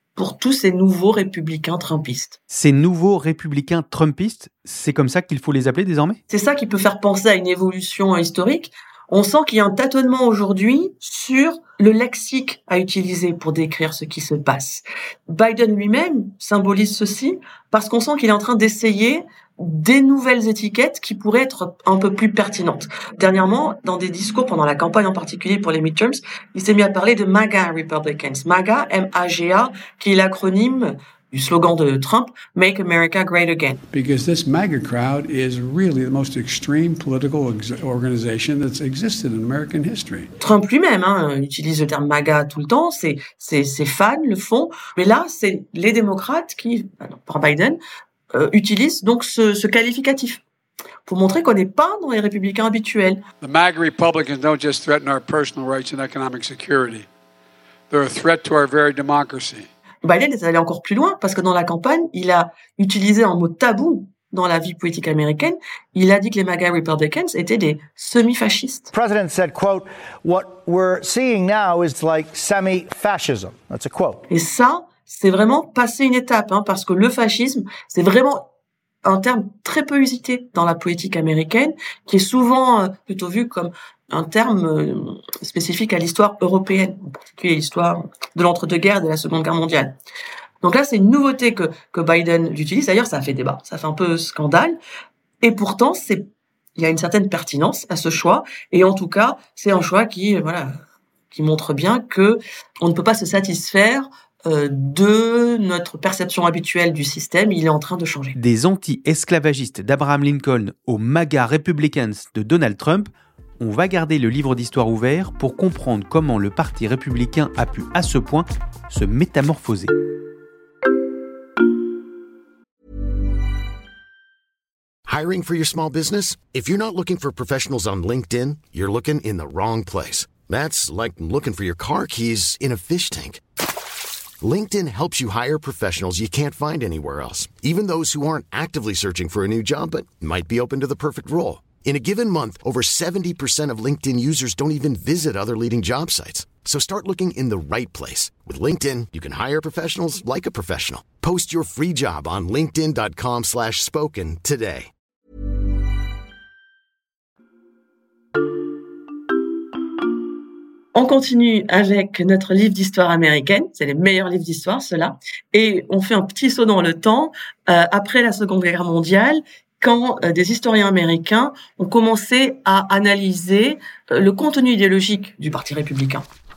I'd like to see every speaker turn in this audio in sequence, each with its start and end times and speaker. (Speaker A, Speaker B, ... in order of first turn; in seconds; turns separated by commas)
Speaker A: 0.1-2.4, Speaker B: 2.5-6.2, Speaker A: 6.3-33.8, Speaker C: 33.9-40.3, Speaker A: 40.4-47.8, Speaker A: 48.3-50.4, Speaker A: 51.0-53.2, Speaker C: 53.4-57.0, Speaker C: 57.9-59.7, Speaker A: 60.0-68.9, Speaker D: 68.9-74.2, Speaker A: 74.3-78.5, Speaker A: 79.0-89.9, Speaker A: 90.6-94.8, Speaker A: 95.4-96.2, Speaker A: 96.8-100.8, Speaker A: 101.3-108.3, Speaker B: 108.3-113.1, Speaker B: 113.6-119.9, Speaker E: 125.1-133.4, Speaker E: 134.4-154.9, Speaker A: 160.9-176.2